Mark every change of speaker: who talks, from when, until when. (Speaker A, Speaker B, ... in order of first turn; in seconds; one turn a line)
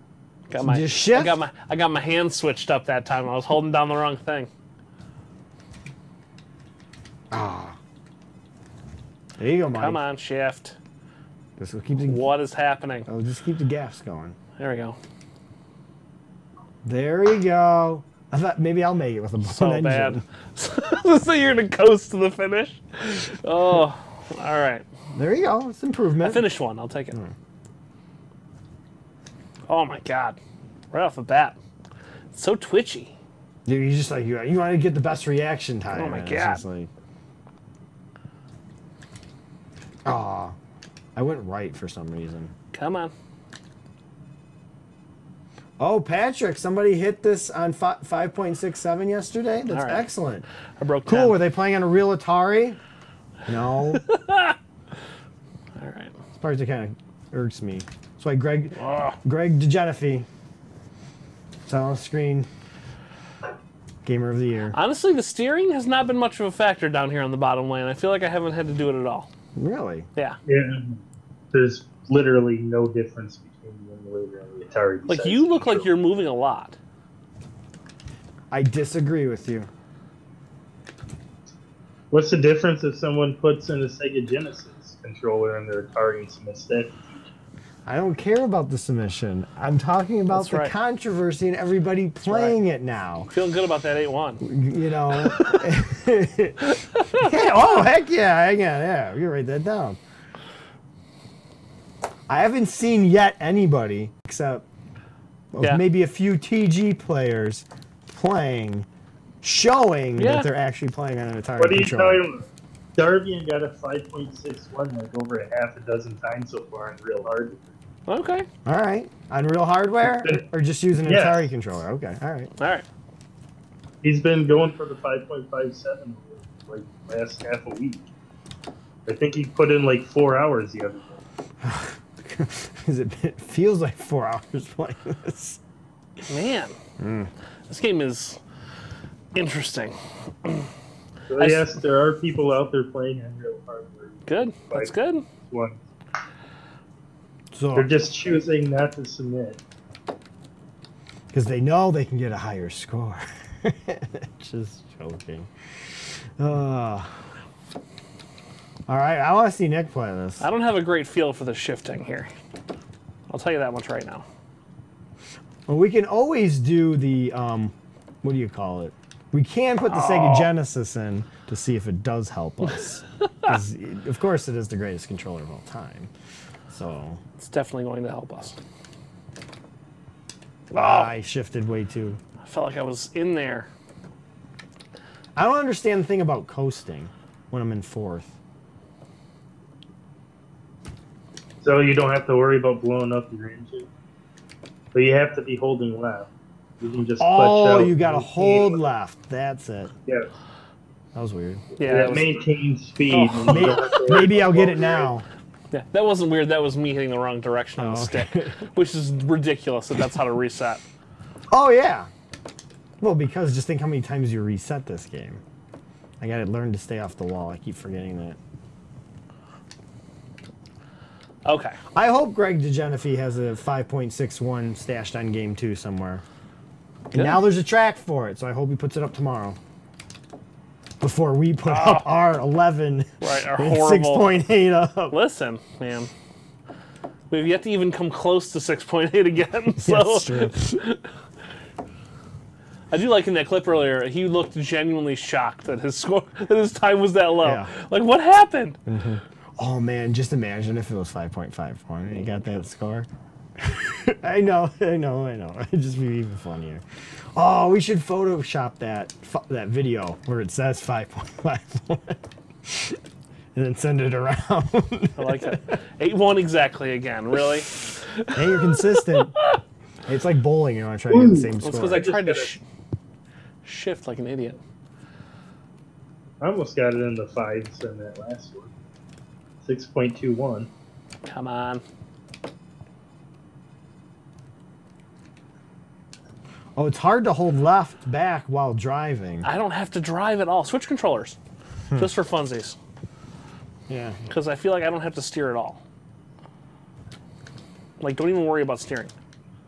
Speaker A: 0.5-4.5
Speaker B: 0.5-1.4
Speaker B: 7.3-7.8
Speaker B: 9.4-10.0
Speaker A: 9.7-10.8
Speaker B: 11.6-12.3
Speaker A: 12.1-13.1
Speaker B: 13.1-14.4
Speaker A: 14.6-15.0
Speaker B: 16.8-20.2
Speaker A: 19.4-24.9
Speaker B: 25.1-26.5
Speaker A: 26.2-27.2
Speaker A: 29.7-30.4
Speaker A: 30.9-31.6
Speaker A: 32.3-33.1
Speaker B: 33.6-36.9
Speaker A: 35.9-36.6
Speaker B: 40.0-40.5
Speaker B: 41.1-42.5
Speaker A: 42.7-43.1
Speaker B: 45.8-50.5
Speaker A: 49.7-50.1
Speaker A: 50.8-51.4
Speaker B: 51.0-52.8
Speaker B: 53.5-54.0
Speaker A: 53.9-54.5
Speaker A: 55.8-56.1
Speaker B: 56.3-60.3
Speaker A: 58.8-59.2
Speaker B: 61.7-62.5
Speaker B: 64.0-64.8
Speaker A: 64.7-69.3
Speaker B: 69.5-70.1
Speaker C: 70.5-71.0
Speaker C: 71.5-75.9
Speaker A: 75.1-76.8
Speaker B: 78.5-79.7
Speaker C: 82.1-87.3
Speaker B: 87.8-93.3
Speaker A: 90.3-90.7
Speaker A: 92.2-92.6
Speaker A: 93.3-94.4
Speaker B: 94.4-100.0
Speaker B: 102.3-104.7
Speaker B: 105.5-108.9
Speaker B: 109.4-112.2
Speaker A: 110.2-110.5
Speaker C: 111.6-112.4
Speaker C: 113.0-117.7
Speaker A: 118.1-118.5
Speaker B: 118.6-122.5
Speaker C: 121.0-121.4
Speaker A: 122.6-122.8
Speaker C: 124.0-128.1
Speaker C: 129.1-131.2
Speaker B: 131.6-135.6
Speaker A: 136.3-136.7
Speaker B: 137.0-137.3
Speaker A: 137.7-138.4
Speaker A: 139.3-140.7
Speaker C: 141.3-145.8
Speaker A: 141.4-141.7
Speaker A: 144.3-145.2
Speaker B: 147.5-147.9
Speaker C: 147.7-149.6
Speaker B: 151.3-155.5
Speaker B: 156.4-157.1
Speaker B: 158.9-160.4
Speaker A: 160.4-162.3
Speaker A: 163.3-164.2
Speaker B: 165.7-176.1
Speaker A: 169.9-170.5
Speaker B: 176.7-177.2
Speaker A: 177.4-178.6
Speaker A: 180.7-181.1
Speaker B: 180.7-182.2
Speaker A: 182.4-183.7
Speaker B: 185.3-188.3
Speaker C: 191.6-193.9
Speaker C: 194.9-196.3
Speaker C: 196.8-198.8
Speaker B: 197.2-199.9
Speaker B: 201.1-201.7
Speaker A: 201.8-202.3
Speaker C: 201.8-205.1
Speaker A: 203.1-204.0
Speaker B: 203.5-205.3
Speaker A: 205.7-210.8
Speaker B: 207.8-208.6
Speaker B: 211.5-212.1
Speaker B: 213.0-215.4
Speaker B: 216.2-218.4
Speaker A: 221.4-221.8
Speaker B: 221.9-226.2
Speaker B: 227.1-229.6
Speaker A: 227.1-227.4
Speaker B: 231.0-235.2
Speaker A: 231.7-232.1
Speaker A: 233.2-234.3
Speaker A: 235.1-236.1
Speaker A: 237.3-241.0
Speaker B: 239.8-240.8
Speaker A: 242.9-248.8
Speaker B: 247.4-247.7
Speaker B: 248.8-256.8
Speaker B: 257.3-263.0
Speaker B: 263.5-265.6
Speaker A: 265.2-267.7
Speaker A: 268.2-269.6
Speaker B: 268.3-269.3
Speaker B: 270.1-272.1
Speaker C: 271.1-272.6
Speaker A: 271.6-272.6
Speaker A: 273.6-274.6
Speaker C: 276.4-278.7
Speaker C: 279.6-280.7
Speaker A: 281.2-281.8
Speaker B: 286.8-289.5
Speaker A: 289.4-291.4
Speaker A: 292.0-292.8
Speaker B: 293.9-294.2
Speaker A: 294.3-295.8
Speaker A: 298.0-299.1